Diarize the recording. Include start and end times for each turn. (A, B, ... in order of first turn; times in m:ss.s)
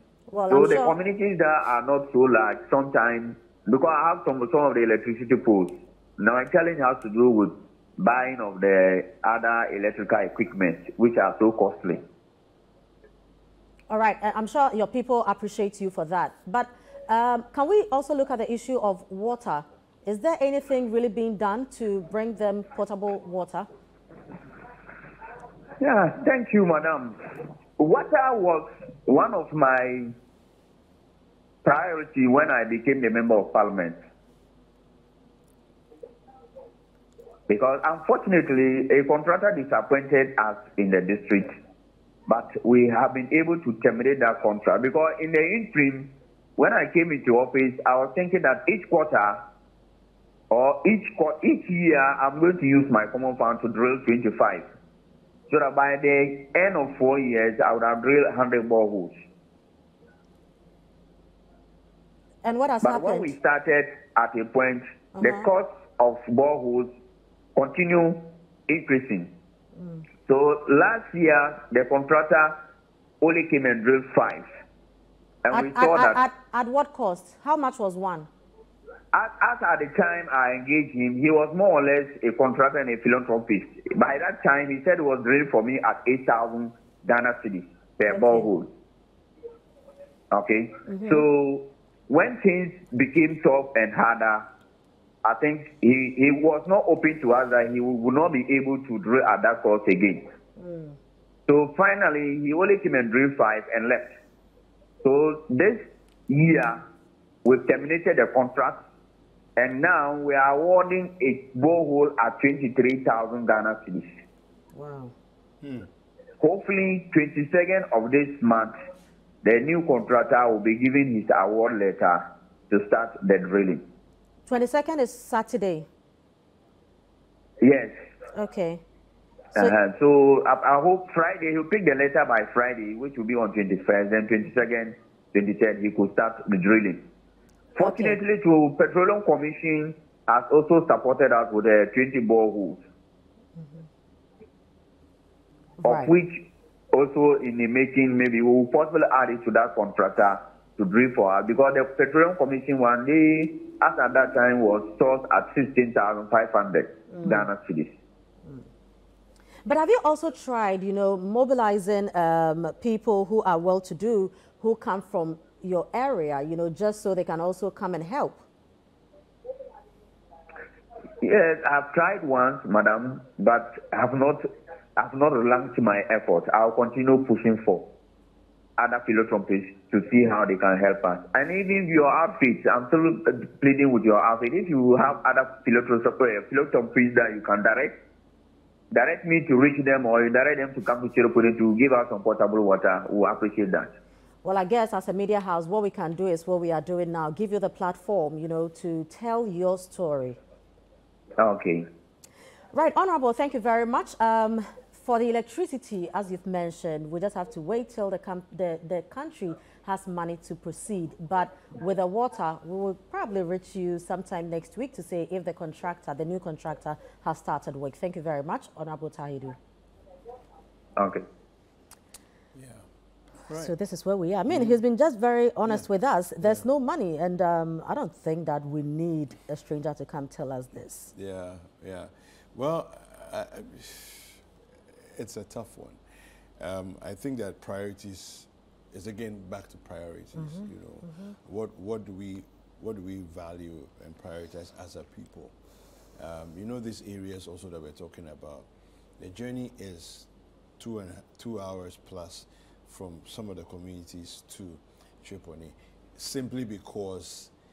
0:00.3-0:01.0 A
0:00.5-0:12.0 B
0:13.9-0:23.7 A
0:25.8-0:27.2 B
0:27.8-0:30.1 B
0:31.6-0:34.0 B
0:37.5-0:41.5 B
0:42.3-0:49.4 B
0:50.5-0:54.6 B
0:55.5-0:59.2 B
1:02.4-1:03.3 A
1:02.8-1:06.9 B
1:05.2-1:05.5 A
1:07.6-1:09.3 B
1:10.3-1:12.6 B
1:13.2-1:14.5 B
1:15.5-1:16.2 B
1:15.5-1:18.3 A
1:19.1-1:28.7 B
1:28.1-1:28.5 A
1:30.3-1:34.4 B
1:30.9-1:31.3 A
1:35.2-1:40.2 B
1:40.6-1:41.0 A
1:41.5-1:44.1 B
1:45.0-1:46.8 B
1:47.4-1:48.8 B
1:49.6-1:54.1 B
1:54.7-1:55.1 A
1:56.4-1:58.8 B
1:59.4-2:03.8 B
2:04.5-2:05.9 A
2:07.6-2:08.0 B
2:08.3-2:08.8 A
2:09.6-2:17.0 B
2:17.8-2:22.8 B
2:17.8-2:18.2 A
2:23.6-2:23.8 A
2:25.8-2:26.1 A
2:25.9-2:26.4 B
2:26.9-2:37.9 B
2:37.1-2:37.5 A
2:39.7-2:48.4 A
2:51.2-2:54.4 B
2:55.0-2:57.8 B
2:58.8-3:07.9 B
3:08.9-3:13.9 B
3:14.4-3:20.4 A
3:21.4-3:21.9 B
3:22.7-3:39.6 A
3:41.0-3:41.2 B
3:42.6-3:42.8 C
3:43.5-3:43.8 C
3:43.5-3:51.1 A
3:44.5-3:44.8 C
3:51.1-3:56.0 C
3:56.6-4:05.6 C
4:00.4-4:01.4 A
4:06.2-4:08.7 C
4:09.2-4:10.3 C
4:10.8-4:17.5 C